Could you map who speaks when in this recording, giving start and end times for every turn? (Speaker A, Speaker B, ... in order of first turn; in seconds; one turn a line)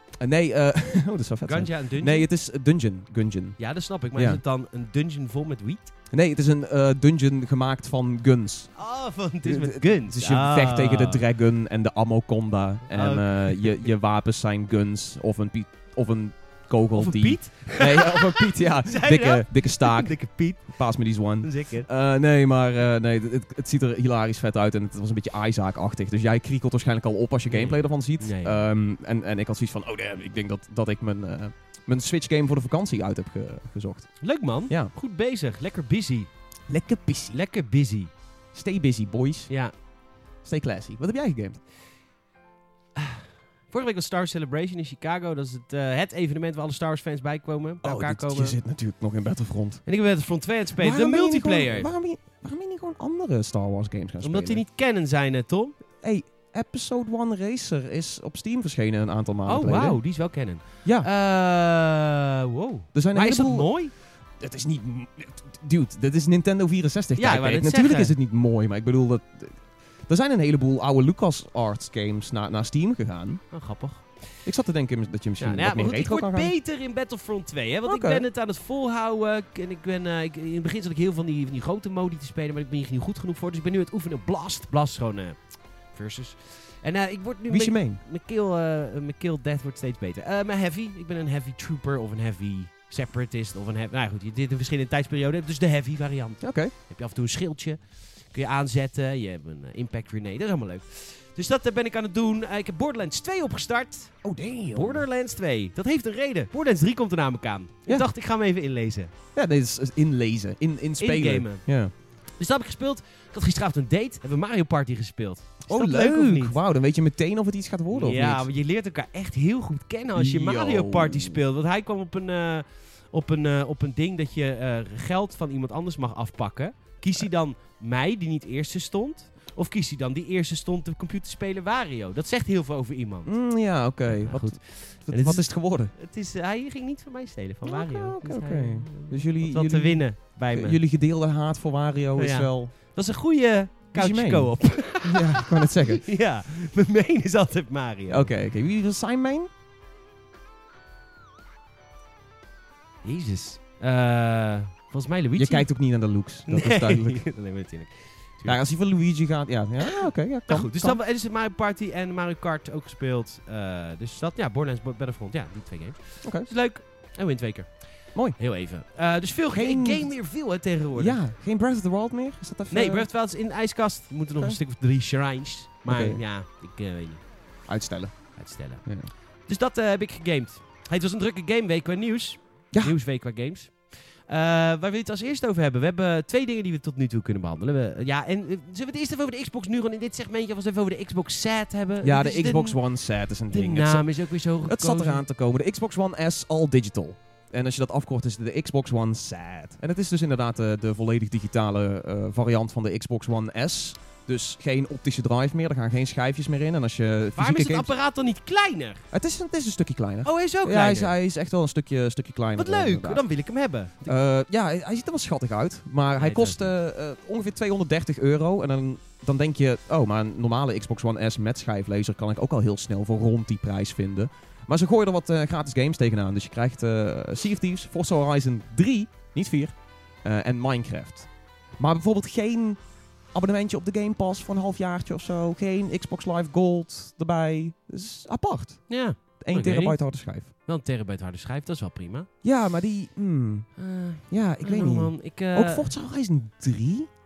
Speaker A: 0.2-3.6
Speaker B: 1.4-2.3
Speaker B: 3.6-5.9
Speaker A: 4.1-4.4
Speaker A: 6.1-8.7
Speaker B: 8.8-11.2
Speaker A: 9.4-34.9
Speaker B: 12.9-13.9
Speaker B: 16.9-20.8
Speaker B: 21.4-21.9
Speaker B: 27.5-28.6
Speaker B: 34.2-36.3
Speaker A: 36.7-37.4
Speaker B: 37.3-38.1
Speaker A: 38.5-39.5
Speaker A: 40.4-41.6
Speaker B: 43.0-48.6
Speaker A: 47.8-49.8
Speaker B: 49.9-51.9
Speaker A: 50.8-54.6
Speaker B: 54.2-55.7
Speaker A: 56.0-60.1
Speaker B: 59.5-63.9
Speaker A: 60.8-61.1
Speaker A: 62.9-63.7
Speaker A: 64.4-73.4
Speaker B: 67.2-68.1
Speaker B: 73.5-74.4
Speaker A: 74.4-76.5
Speaker B: 75.4-109.1
Speaker A: 77.8-78.2
Speaker A: 87.5-88.0
Speaker A: 96.4-96.7
Speaker A: 104.2-105.0
Speaker A: 109.3-111.9
Speaker B: 111.0-111.6
Speaker B: 112.4-116.5
Speaker A: 115.7-118.5
Speaker B: 117.9-133.3
Speaker A: 120.1-121.4
Speaker A: 133.2-135.9
Speaker B: 134.1-140.8
Speaker A: 137.6-142.7
Speaker B: 142.2-148.4
Speaker A: 143.9-146.0
Speaker A: 148.1-149.5
Speaker B: 153.0-155.7
Speaker A: 155.3-157.2
Speaker B: 156.5-158.6
Speaker A: 158.4-161.0
Speaker B: 159.8-171.2
Speaker A: 166.2-166.5
Speaker A: 168.1-168.4
Speaker A: 169.5-170.2
Speaker A: 170.9-173.1
Speaker B: 172.7-177.2
Speaker A: 175.9-176.2
Speaker A: 177.7-179.1
Speaker B: 178.3-192.8
Speaker A: 192.0-207.9
Speaker B: 193.5-195.2
Speaker B: 207.3-209.0
Speaker A: 209.1-213.2
Speaker B: 210.2-211.1
Speaker B: 212.6-214.1
Speaker A: 214.0-232.8
Speaker B: 216.2-216.7
Speaker A: 233.3-238.9
Speaker B: 238.9-240.0
Speaker A: 239.4-240.5
Speaker B: 240.6-242.3
Speaker A: 242.4-247.1
Speaker B: 243.8-245.9